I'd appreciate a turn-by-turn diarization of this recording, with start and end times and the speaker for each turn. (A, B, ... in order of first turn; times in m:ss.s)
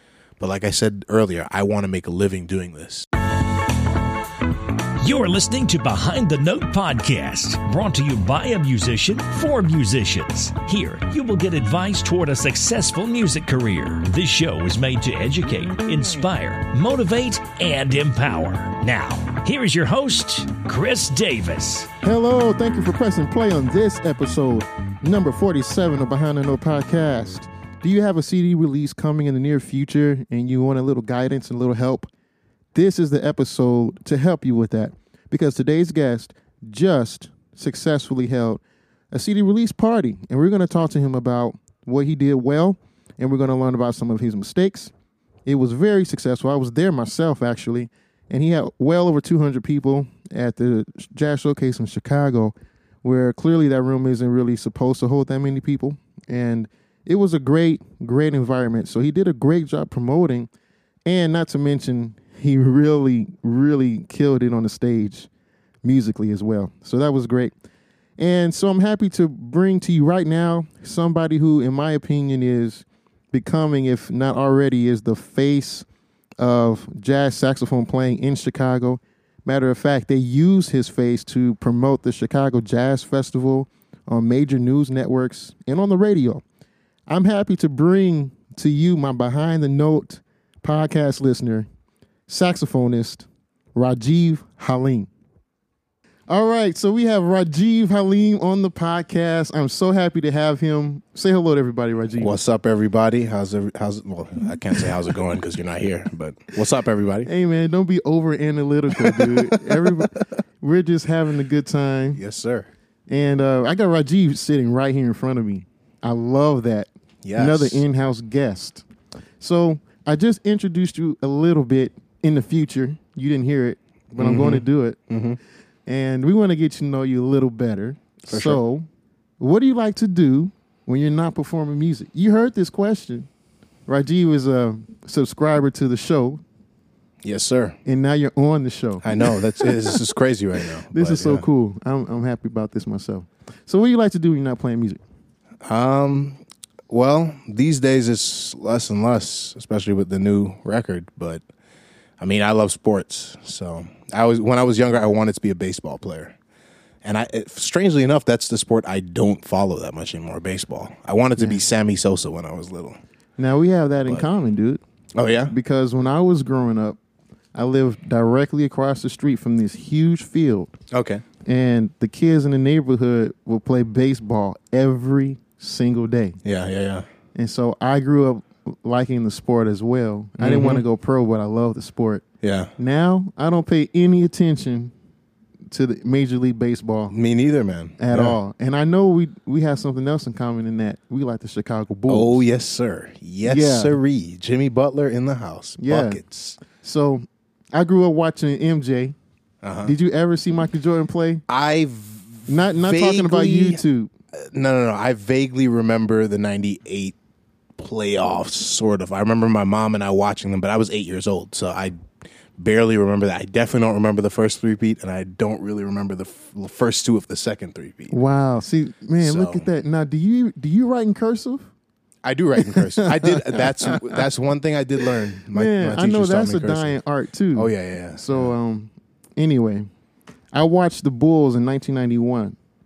0:00.4-0:03.0 A
0:05.0-0:21.9 B
0:22.0-0:32.1 C
0:32.7-0:44.9 C
0:45.4-1:00.5 C
1:01.0-1:05.3 C
1:05.8-1:07.5 C
1:08.2-1:15.8 C
1:16.4-1:26.4 C
1:27.1-1:31.7 C
1:32.3-1:35.1 C
1:36.3-1:42.3 C
1:42.2-1:47.3 A
1:47.2-1:52.2 C
1:48.9-1:50.2 A
1:52.1-1:52.7 A
1:53.1-1:58.8 C
1:57.2-1:57.8 A
1:59.4-2:05.0 C
2:04.2-2:05.4 A
2:05.8-2:08.9 C
2:08.3-2:08.6 A
2:09.4-2:13.3 C
2:13.9-2:16.4 C
2:17.2-2:17.8 A
2:17.8-2:20.0 C
2:19.0-2:21.4 A
2:20.9-2:25.0 C
2:25.7-2:31.4 A
2:32.2-2:36.3 A
2:37.0-2:43.0 A
2:43.4-2:44.8 C
2:45.1-2:45.5 A
2:45.5-2:47.0 C
2:47.5-2:50.7 C
2:50.9-2:51.2 A
2:51.4-2:56.4 C
2:56.4-2:57.1 A
2:57.3-3:02.2 C
3:00.4-3:00.8 A
3:02.4-3:02.7 A
3:02.8-3:04.9 C
3:05.7-3:07.1 C
3:07.1-3:08.4 A
3:08.0-3:12.4 C
3:12.1-3:16.6 A
3:13.4-3:14.0 C
3:15.8-3:19.2 C
3:19.6-3:19.9 A
3:19.8-3:21.4 C
3:21.5-3:23.8 A
3:22.5-3:24.1 C
3:24.3-3:27.2 A
3:27.8-3:32.0 A
3:32.6-3:38.1 A
3:38.1-3:41.7 C
3:39.2-3:39.7 A
3:42.2-3:47.0 A
3:42.6-3:44.2 C
3:45.0-3:49.9 C
3:47.5-3:48.5 A
3:50.5-3:52.6 C